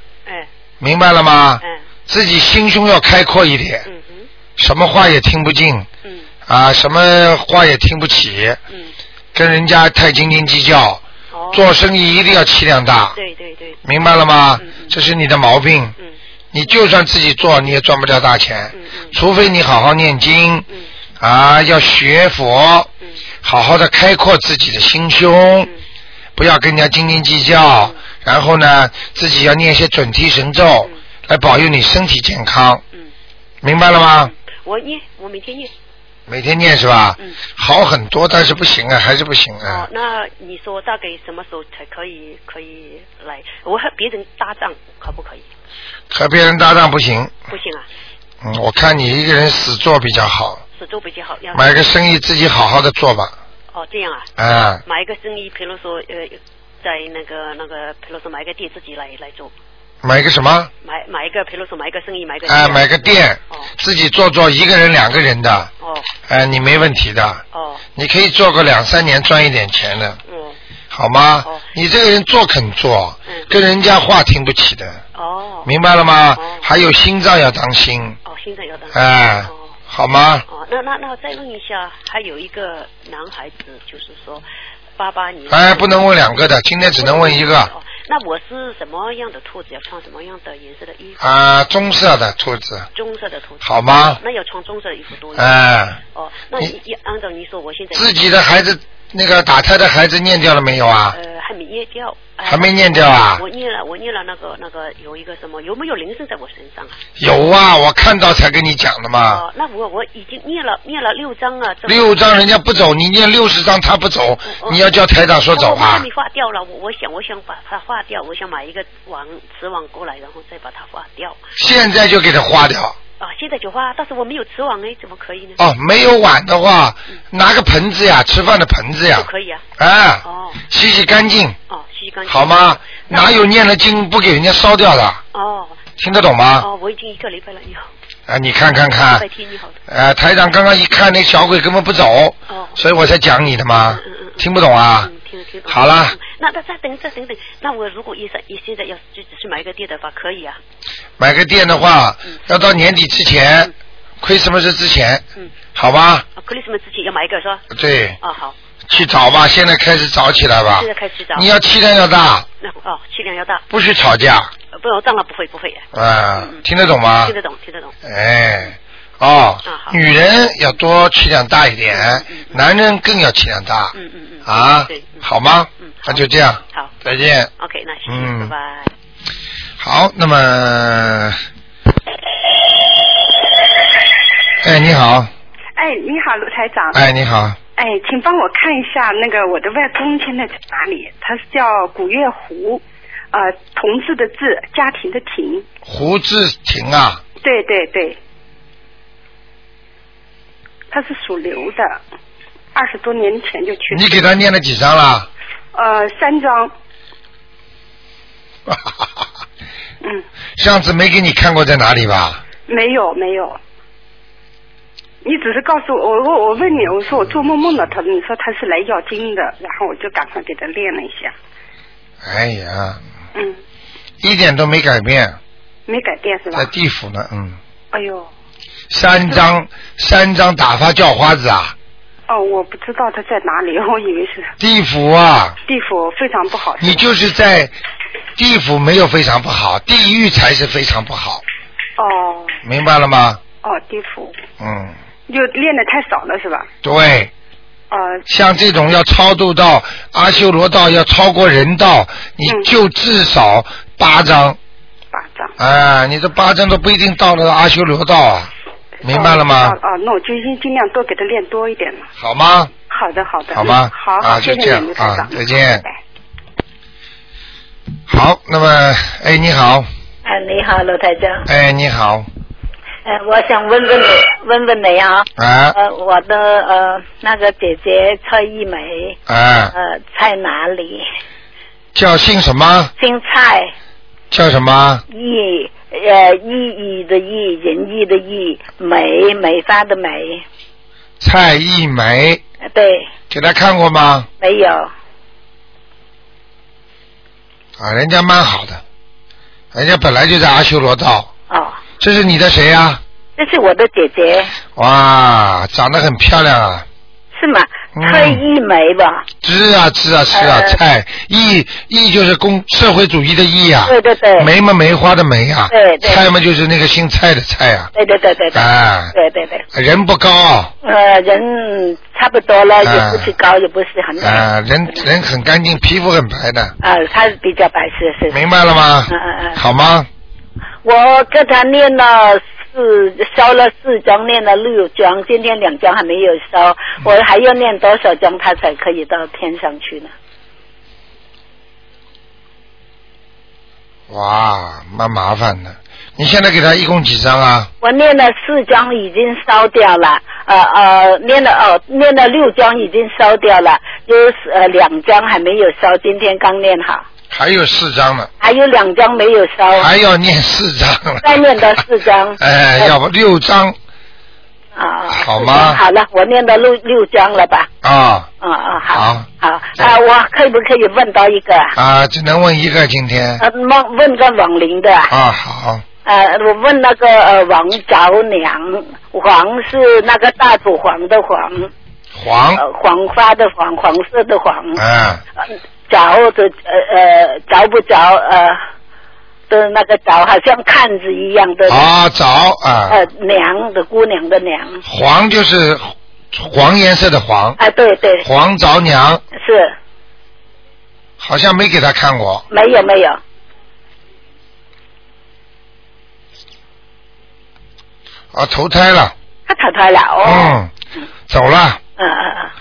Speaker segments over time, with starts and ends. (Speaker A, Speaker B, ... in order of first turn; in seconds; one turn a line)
Speaker A: 0.8-3.9
Speaker B: 3.8-4.3
Speaker A: 4.6-5.9
Speaker B: 6.0-6.3
Speaker A: 6.5-8.6
Speaker B: 8.7-8.9
Speaker A: 9.3-13.2
Speaker B: 11.3-11.7
Speaker B: 13.1-13.8
Speaker A: 13.8-15.9
Speaker B: 14.6-15.0
Speaker A: 16.5-20.6
Speaker B: 18.7-19.2
Speaker A: 21.2-22.9
Speaker A: 23.4-25.7
Speaker A: 26.4-32.8
Speaker A: 33.6-34.3
Speaker B: 34.2-35.7
Speaker A: 36.3-39.9
Speaker B: 39.6-45.5
Speaker A: 46.1-47.3
Speaker B: 47.5-47.9
Speaker A: 48.4-50.6
Speaker B: 50.7-51.9
Speaker A: 51.5-53.3
Speaker B: 53.7-54.3
Speaker A: 54.4-54.8
Speaker B: 54.8-59.5
Speaker A: 60.0-60.7
Speaker B: 60.8-63.7
Speaker A: 62.5-65.7
Speaker B: 65.8-66.1
Speaker A: 66.3-67.4
Speaker B: 67.5-67.8
Speaker A: 68.0-70.2
Speaker B: 70.2-70.6
Speaker A: 70.9-75.0
Speaker B: 71.4-71.7
Speaker B: 75.1-75.7
Speaker A: 75.6-78.2
Speaker B: 76.3-76.7
Speaker B: 78.2-79.8
Speaker A: 78.9-80.4
Speaker B: 80.5-91.3
Speaker A: 85.5-87.7
Speaker A: 91.2-92.9
Speaker B: 92.9-95.6
Speaker A: 93.6-94.2
Speaker A: 95.3-96.0
Speaker B: 96.1-98.3
Speaker A: 97.9-101.2
Speaker B: 101.1-107.0
Speaker A: 102.4-103.4
Speaker A: 107.2-109.4
Speaker B: 109.2-112.4
Speaker A: 111.8-116.0
Speaker B: 114.4-114.9
Speaker B: 115.5-121.4
Speaker A: 121.6-122.9
Speaker B: 123.2-125.6
Speaker A: 125.6-131.6
Speaker B: 129.1-129.6
Speaker B: 130.2-130.6
Speaker B: 131.7-133.5
Speaker A: 132.3-135.2
Speaker B: 135.3-135.8
Speaker A: 136.0-136.7
Speaker B: 136.6-137.9
Speaker A: 138.3-139.2
Speaker B: 138.9-139.8
Speaker A: 139.9-145.1
Speaker B: 142.5-142.8
Speaker B: 143.7-144.4
Speaker B: 145.0-150.6
Speaker A: 145.7-146.2
Speaker A: 151.2-153.7
Speaker A: 154.2-156.2
Speaker B: 156.3-157.6
Speaker A: 157.7-158.2
Speaker B: 158.2-158.6
Speaker A: 158.9-162.5
Speaker B: 160.7-161.5
Speaker B: 162.6-163.7
Speaker A: 163.7-164.5
Speaker B: 164.7-166.7
Speaker A: 165.9-167.3
Speaker B: 167.2-167.9
Speaker A: 168.0-177.5
Speaker B: 169.6-170.0
Speaker B: 171.9-172.6
Speaker B: 173.9-176.9
Speaker B: 177.6-178.9
Speaker A: 178.1-178.5
Speaker A: 179.8-181.4
Speaker A: 184.6-185.3
Speaker C: 185.8-187.0
Speaker A: 186.9-187.6
Speaker C: 187.8-195.7
Speaker A: 195.8-197.2
Speaker C: 197.4-198.2
Speaker C: 200.9-202.0
Speaker C: 202.7-204.3
Speaker A: 203.9-205.3
Speaker C: 205.7-206.7
Speaker A: 208.7-209.1
Speaker A: 210.6-212.4
Speaker C: 212.7-213.6
Speaker C: 215.2-221.3
Speaker A: 222.2-223.0
Speaker A: 224.2-225.4
Speaker C: 225.9-226.7
Speaker A: 226.5-227.6
Speaker C: 227.9-228.3
Speaker A: 228.9-231.7
Speaker C: 232.3-234.5
Speaker A: 234.6-235.6
Speaker C: 235.7-237.0
Speaker A: 236.8-237.8
Speaker A: 238.4-241.4
Speaker C: 242.0-242.6
Speaker A: 242.6-243.4
Speaker C: 243.6-244.3
Speaker A: 244.6-244.9
Speaker C: 245.3-246.7
Speaker A: 246.8-247.3
Speaker C: 247.9-248.2
Speaker A: 248.3-254.6
Speaker C: 255.1-255.6
Speaker A: 255.6-258.5
Speaker A: 259.0-259.8
Speaker C: 259.0-262.1
Speaker A: 262.2-262.7
Speaker C: 262.9-266.0
Speaker A: 263.5-265.8
Speaker A: 268.1-269.9
Speaker D: 270.2-271.5
Speaker A: 271.4-272.3
Speaker D: 273.0-279.2
Speaker A: 275.4-275.8
Speaker A: 279.3-279.7
Speaker D: 279.7-281.1
Speaker A: 281.9-282.9
Speaker D: 283.0-283.7
Speaker A: 284.3-285.0
Speaker D: 285.1-290.4
Speaker A: 291.2-292.4
Speaker D: 292.6-293.1
Speaker A: 293.3-294.3
Speaker D: 294.4-294.9
Speaker A: 297.8-298.8
Speaker A: 299.7-301.3
Speaker D: 301.5-301.8
Speaker A: 302.0-303.0
Speaker D: 303.4-304.5
Speaker A: 304.7-306.9
Speaker D: 307.3-309.3
Speaker A: 307.9-308.4
Speaker A: 309.4-317.9
Speaker D: 310.3-310.8
Speaker D: 313.9-314.5
Speaker D: 315.7-316.2
Speaker D: 317.9-319.6
Speaker A: 318.5-319.1
Speaker A: 319.7-320.7
Speaker D: 320.8-324.4
Speaker A: 322.8-323.3
Speaker A: 324.2-326.7
Speaker D: 326.8-328.4
Speaker A: 328.3-330.1
Speaker D: 329.1-329.6
Speaker D: 330.8-340.1
Speaker A: 344.1-347.7
Speaker D: 347.8-357.0
Speaker A: 357.3-358.3
Speaker D: 358.4-359.9
Speaker A: 359.7-361.7
Speaker D: 361.2-362.9
Speaker A: 362.4-363.8
Speaker D: 364.7-367.7
Speaker A: 365.1-365.8
Speaker A: 367.8-368.3
Speaker D: 368.4-371.7
Speaker A: 368.9-369.2
Speaker A: 371.8-373.4
Speaker D: 373.4-375.1
Speaker A: 375.1-375.8
Speaker D: 376.0-381.7
Speaker A: 382.1-382.6
Speaker D: 382.6-384.8
Speaker A: 384.8-385.2
Speaker D: 385.9-388.6
Speaker D: 389.5-391.9
Speaker A: 391.7-393.0
Speaker D: 392.9-394.8
Speaker A: 394.8-397.6
Speaker D: 397.6-398.2
Speaker A: 398.2-399.2
Speaker D: 399.3-399.7
Speaker A: 401.2-402.4
Speaker D: 402.5-403.2
Speaker A: 408.3-409.1
Speaker D: 409.5-410.6
Speaker A: 410.2-410.7
Speaker A: 411.3-411.8
Speaker D: 412.0-412.5